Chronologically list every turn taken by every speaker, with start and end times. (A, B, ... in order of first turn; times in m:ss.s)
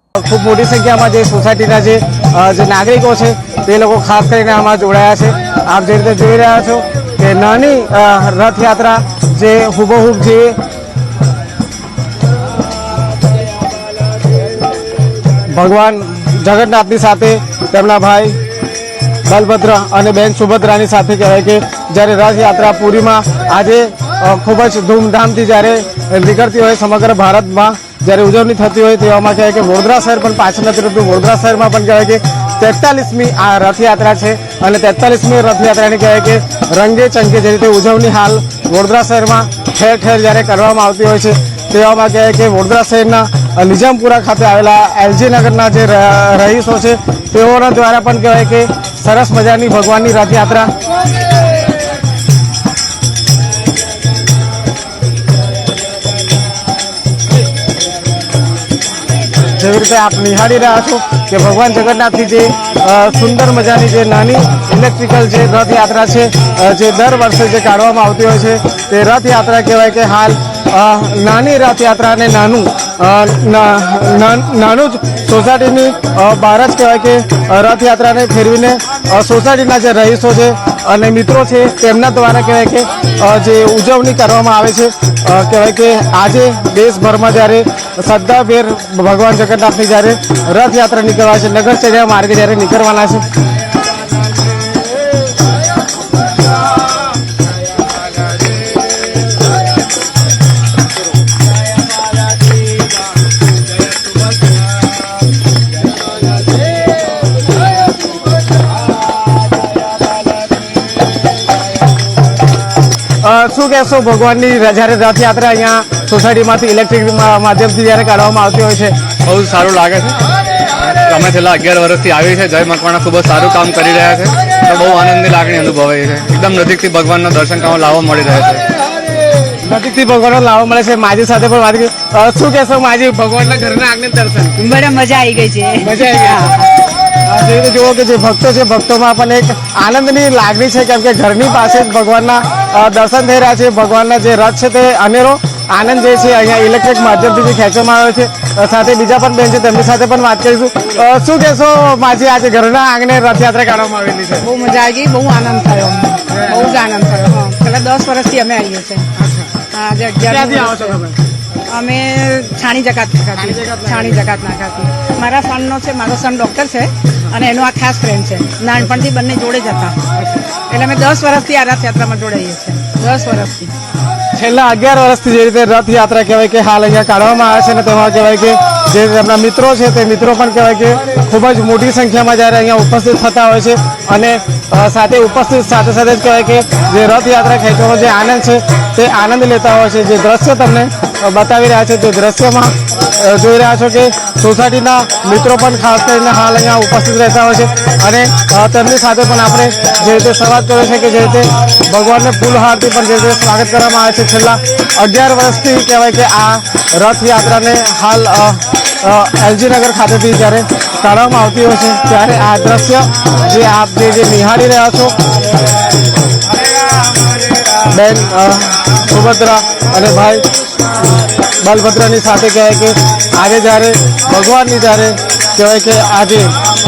0:00.2-0:10.6 A
0:15.5-0:18.4 A
0:19.2-0:50.7 A
0:59.5-1:33.2 A
1:53.2-1:58.9 A
1:59.2-2:00.2 B
2:00.8-2:08.7 B
2:09.6-2:14.6 A
2:14.6-2:16.6 C
2:15.8-2:16.5 A
2:17.2-2:34.5 A
2:34.4-2:41.0 C
2:36.3-2:36.8 A
2:39.2-2:39.5 A
2:40.2-2:41.2 A
2:41.7-2:50.0 C
2:43.4-2:44.2 A
2:50.7-2:53.7 C
2:54.3-3:35.2 A
3:37.8-3:40.4 A
3:41.6-3:46.5 A